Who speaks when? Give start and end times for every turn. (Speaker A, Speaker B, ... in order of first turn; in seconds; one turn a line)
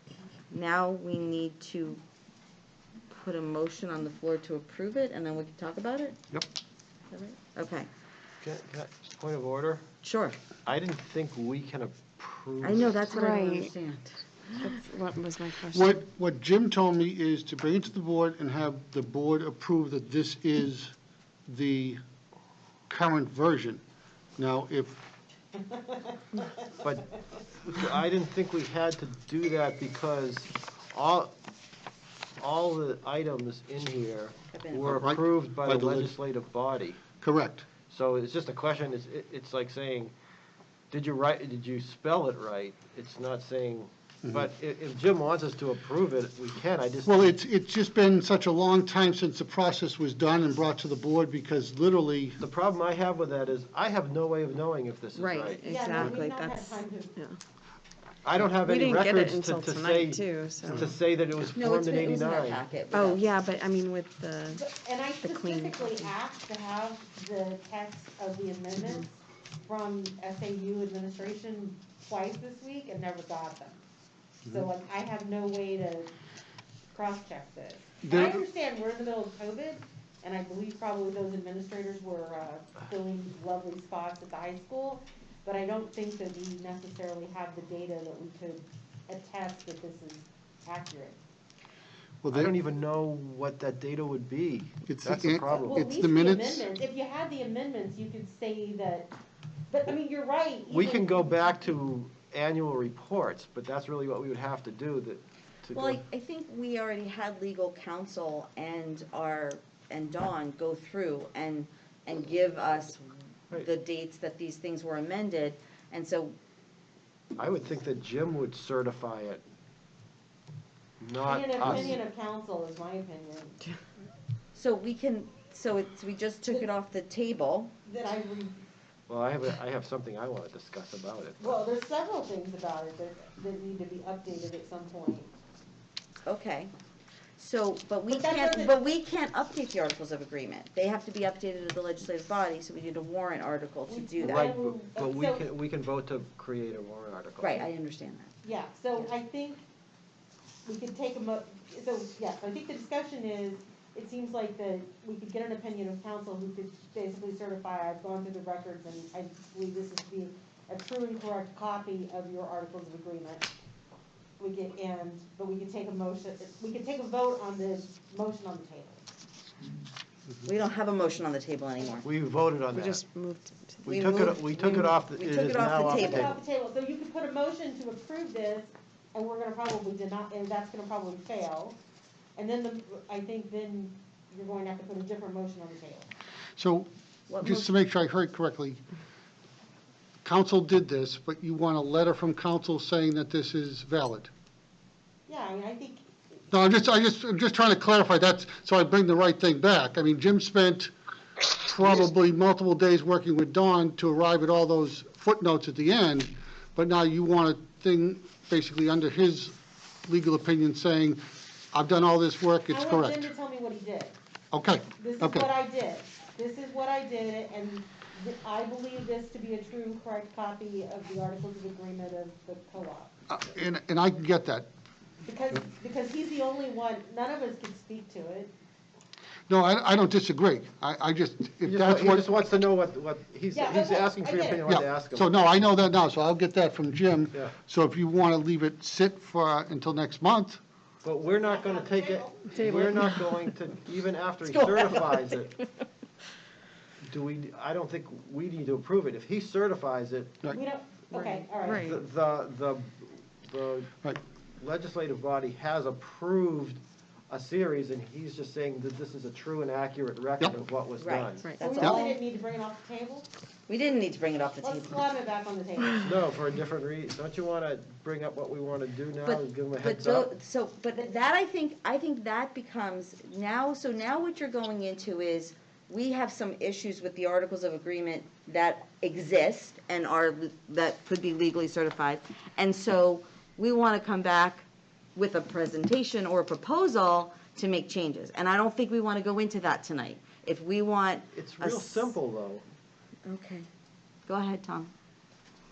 Speaker A: 0.5-2.0
Speaker A: 3.1-6.2
Speaker A: 7.1-7.9
Speaker B: 8.4-9.8
Speaker A: 10.0-10.4
Speaker B: 10.7-13.1
Speaker A: 12.6-14.8
Speaker C: 13.1-13.7
Speaker C: 14.5-16.0
Speaker D: 15.7-20.9
Speaker D: 21.5-22.0
Speaker D: 22.9-23.8
Speaker D: 24.4-25.0
Speaker E: 25.6-26.6
Speaker B: 26.8-31.3
Speaker B: 32.4-37.0
Speaker A: 34.5-35.0
Speaker D: 35.0-36.1
Speaker D: 37.2-37.7
Speaker B: 37.9-40.1
Speaker B: 40.9-47.3
Speaker D: 47.1-52.4
Speaker B: 52.4-56.2
Speaker A: 55.2-56.2
Speaker C: 55.2-57.4
Speaker E: 55.6-57.1
Speaker B: 58.2-62.6
Speaker C: 58.5-60.9
Speaker A: 61.5-63.2
Speaker C: 62.9-64.6
Speaker E: 64.5-73.8
Speaker C: 65.2-66.1
Speaker E: 74.5-76.1
Speaker E: 76.9-91.2
Speaker D: 78.0-78.4
Speaker D: 92.2-92.5
Speaker B: 92.3-95.8
Speaker D: 94.9-96.7
Speaker E: 95.5-99.1
Speaker E: 99.7-101.3
Speaker B: 100.7-106.0
Speaker A: 105.7-116.4
Speaker B: 117.4-119.4
Speaker B: 121.0-122.0
Speaker E: 121.2-123.6
Speaker A: 124.5-127.7
Speaker E: 127.8-128.6
Speaker B: 129.1-131.6
Speaker E: 131.4-135.3
Speaker A: 136.3-136.7
Speaker A: 137.4-144.5
Speaker E: 138.1-138.8
Speaker E: 143.9-145.4
Speaker B: 144.2-147.6
Speaker A: 147.4-148.3
Speaker E: 148.4-149.7
Speaker E: 150.7-163.5
Speaker E: 164.4-169.1
Speaker A: 170.4-172.1
Speaker B: 172.0-173.0
Speaker C: 172.7-174.7
Speaker B: 173.8-176.4
Speaker A: 173.9-176.4
Speaker E: 175.7-181.8
Speaker E: 182.4-186.1
Speaker D: 186.6-186.9
Speaker A: 187.3-187.7
Speaker D: 187.4-188.8
Speaker D: 190.2-194.3
Speaker E: 195.3-196.1
Speaker D: 196.5-200.9
Speaker D: 201.6-209.6
Speaker D: 210.1-213.3
Speaker E: 212.7-214.2
Speaker D: 214.5-215.5
Speaker E: 215.0-223.1
Speaker D: 223.3-224.7
Speaker E: 225.2-228.5
Speaker D: 229.5-232.3
Speaker B: 231.6-235.3
Speaker E: 233.5-234.7
Speaker D: 234.7-240.6
Speaker B: 241.0-245.5
Speaker E: 241.2-242.6
Speaker C: 242.5-243.5
Speaker A: 244.5-245.4
Speaker B: 247.0-250.4
Speaker E: 250.5-251.9
Speaker C: 251.1-252.0
Speaker B: 251.7-253.9
Speaker B: 254.6-261.5
Speaker A: 261.0-262.2
Speaker E: 261.6-263.3
Speaker A: 263.7-265.0
Speaker E: 264.6-266.2
Speaker B: 266.0-270.3
Speaker A: 269.2-284.6
Speaker A: 285.2-292.1
Speaker B: 291.3-292.6
Speaker A: 293.3-293.7
Speaker A: 294.3-294.9